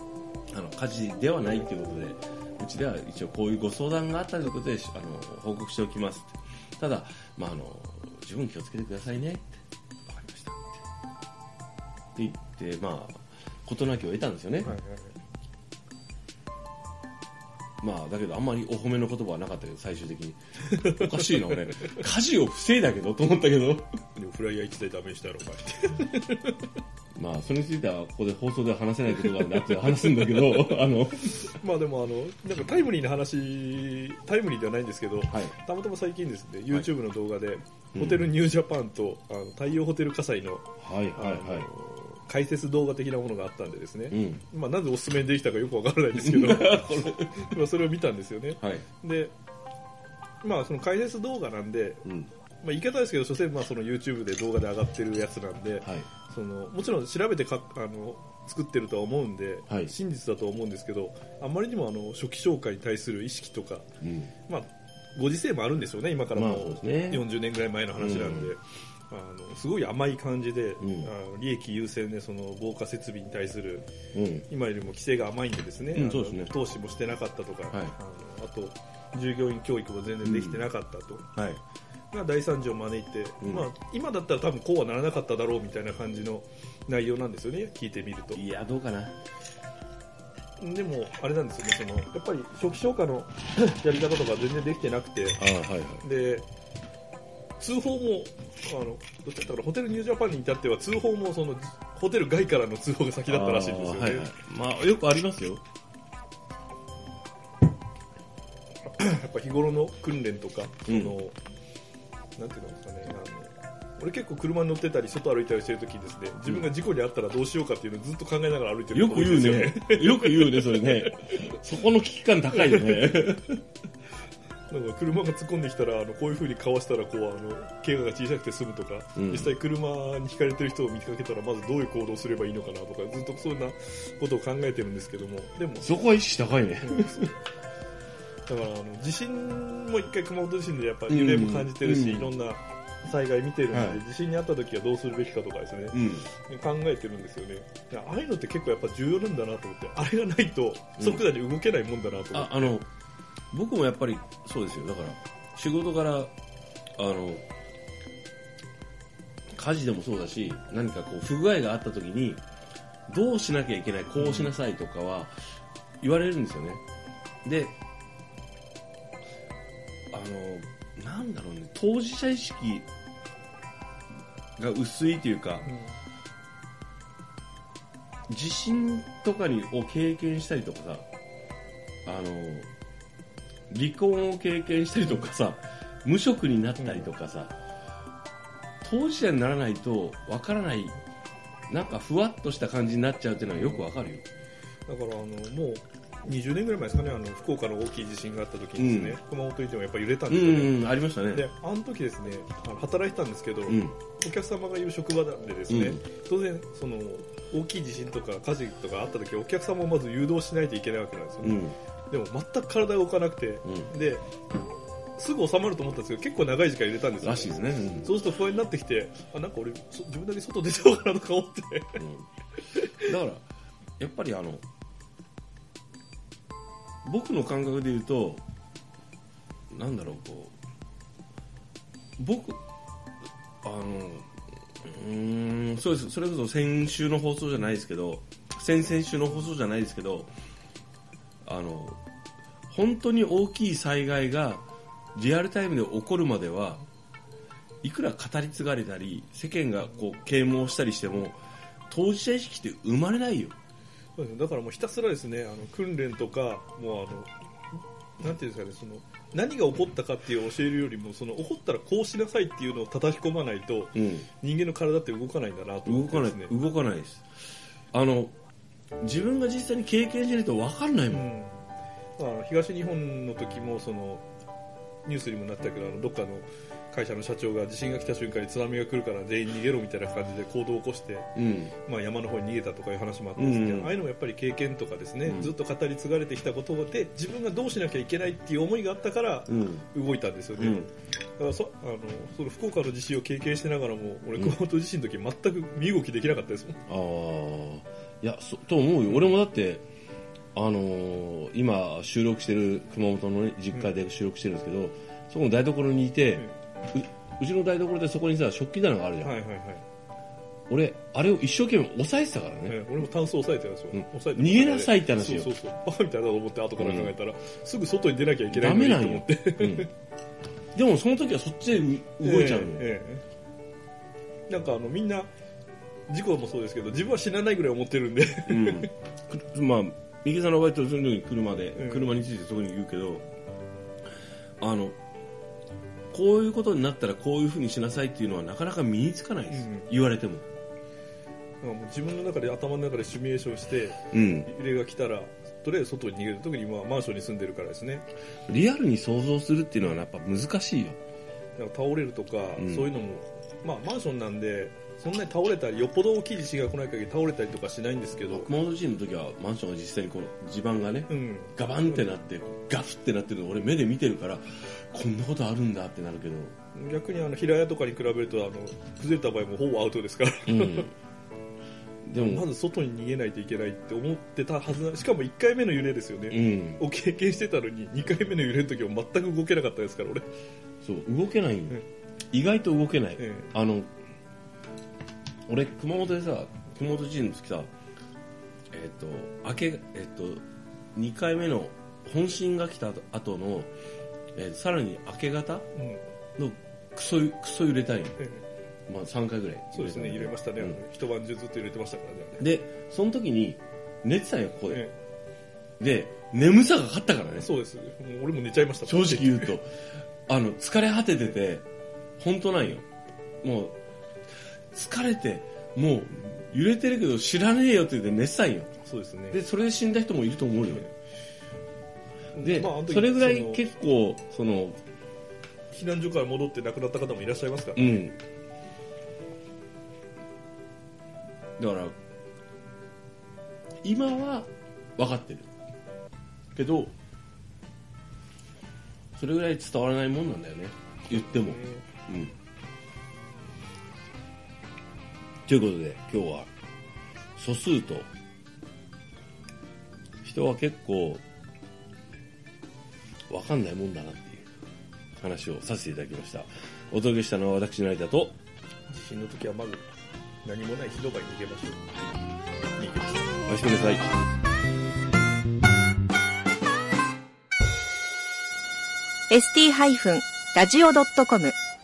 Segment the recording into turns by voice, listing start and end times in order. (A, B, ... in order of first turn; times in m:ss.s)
0:00.5-0:09.6 A
0:10.1-0:10.6 B
0:12.2-0:14.8 A
0:14.6-0:15.2 B
0:17.8-0:23.9 A
0:20.7-0:21.6 B
0:24.2-0:26.7 B
0:27.2-0:31.5 A
0:31.4-0:49.3 B
0:35.3-0:35.6 A
0:38.0-0:38.3 A
0:40.8-0:41.7 A
0:44.1-0:44.4 A
0:46.2-0:47.4 A
0:50.4-0:52.1 B
0:52.0-0:52.3 A
0:52.6-1:03.9 B
0:55.8-0:56.1 A
1:04.0-1:04.3 A
1:04.5-1:13.9 B
1:06.4-1:07.2 A
1:08.0-1:08.5 A
1:10.8-1:11.1 A
1:14.1-1:14.5 A
1:14.5-1:21.3 B
1:15.9-1:16.5 A
1:20.2-1:20.6 A
1:21.4-1:21.6 A
1:22.1-1:28.4 B
1:23.4-1:23.7 A
1:28.4-1:29.2 A
1:30.6-1:35.4 B
1:35.4-1:36.1 A
1:36.0-1:36.5 B
1:37.6-1:44.3 B
1:43.3-1:45.6 A
1:48.9-1:51.4 B
1:50.9-1:51.2 A
1:52.4-2:01.5 B
1:56.5-1:56.7 A
1:58.9-2:03.6 A
2:02.6-2:03.1 B
2:04.7-2:15.9 B
2:09.2-2:09.5 A
2:15.8-2:17.3 A
2:16.8-2:17.4 B
2:18.5-2:32.8 B
2:21.1-2:22.3 A
2:23.7-2:24.0 A
2:25.9-2:26.3 A
2:31.0-2:31.2 A
2:32.3-2:32.9 A
2:33.5-2:36.3 A
2:37.0-2:37.4 A
2:39.5-2:42.4 A
2:43.1-2:45.3 A
2:44.2-2:44.5 B
2:46.0-2:46.8 A
2:47.4-2:47.8 A
2:50.1-2:52.9 A
2:54.6-2:55.7 A
2:55.7-2:56.0 B
2:58.3-3:01.0 A
3:02.1-3:02.7 A
3:03.7-3:07.5 A
3:06.8-3:07.1 B
3:08.8-3:11.0 A
3:11.7-3:14.2 A
3:13.5-3:13.9 B
3:14.9-3:34.3 B
3:18.8-3:19.2 A
3:20.3-3:21.5 A
3:23.7-3:24.0 A
3:25.7-3:26.0 A
3:31.4-3:31.8 A
3:33.6-3:33.9 A
3:35.2-3:42.0 B
3:37.2-3:38.2 A
3:42.0-3:42.3 A
3:42.7-3:43.1 B
3:43.0-3:43.4 A
3:44.0-3:44.6 A
3:47.0-3:48.4 A
3:49.7-3:50.6 A
3:52.2-3:52.6 A
3:53.6-3:54.3 A
3:54.8-4:00.3 A
4:01.4-4:02.0 A
4:02.7-4:04.6 A
4:05.2-4:06.8 A
4:07.8-4:13.6 A
4:14.2-4:26.6 B
4:24.0-4:24.3 A
4:25.9-4:27.3 A
4:27.9-4:28.3 A
4:29.0-4:31.3 A
4:31.1-4:34.3 B
4:35.0-4:56.8 B
4:41.4-4:41.7 A
4:43.4-4:43.9 A
4:45.3-4:45.5 A
4:49.5-4:49.9 A
4:50.6-4:50.9 A
4:56.9-4:59.8 A
5:00.6-5:09.4 A
5:09.2-5:09.8 B
5:10.7-5:12.8 A
5:12.7-5:19.9 B
5:13.9-5:15.5 A
5:16.8-5:17.1 A
5:18.5-5:19.9 A
5:20.7-5:22.9 A
5:22.2-5:23.2 B
5:24.5-5:25.3 B
5:26.1-5:28.9 B
5:28.5-5:33.2 A
5:31.8-5:32.2 B
5:34.6-5:35.0 A
5:36.1-5:40.4 A
5:39.5-5:39.9 B
5:41.6-5:48.1 B
5:44.1-5:44.5 A
5:48.5-5:51.0 A
5:51.6-5:58.5 B
5:52.6-5:52.9 A
5:58.3-6:06.6 A
6:01.1-6:02.1 B
6:06.7-6:10.9 B
6:10.5-6:10.9 A
6:12.1-6:12.5 A
6:12.2-6:20.3 B
6:16.3-6:16.8 A
6:20.8-6:23.9 A
6:23.2-6:23.5 B
6:25.5-6:27.7 A
6:28.7-6:30.4 A
6:31.0-6:33.7 A
6:34.4-6:35.7 A
6:35.8-6:36.0 B
6:36.4-6:38.2 A
6:38.9-6:40.8 A
6:39.7-6:42.4 B
6:42.4-6:44.9 A
6:45.8-6:47.5 A
6:47.4-6:49.5 B
6:48.9-6:49.7 A
6:50.3-6:51.6 A
6:52.2-6:52.9 A
6:53.4-6:53.8 A
6:54.7-6:58.7 A
6:58.8-6:59.4 B
6:59.3-7:00.9 A
7:02.3-7:03.6 B
7:02.4-7:04.8 A
7:05.7-7:08.1 B
7:07.8-7:08.2 A
7:11.6-7:12.0 A
7:13.8-7:15.5 A
7:16.5-7:16.9 A
7:19.2-7:22.3 A
7:21.1-7:21.9 B
7:25.5-7:26.5 A
7:27.4-7:28.1 A
7:30.2-7:31.2 A
7:33.3-7:34.5 A
7:35.2-7:38.4 A
7:38.9-7:39.9 B
7:40.4-7:42.0 B
7:42.8-7:43.4 B
7:43.5-7:44.1 A
7:49.3-7:51.6 C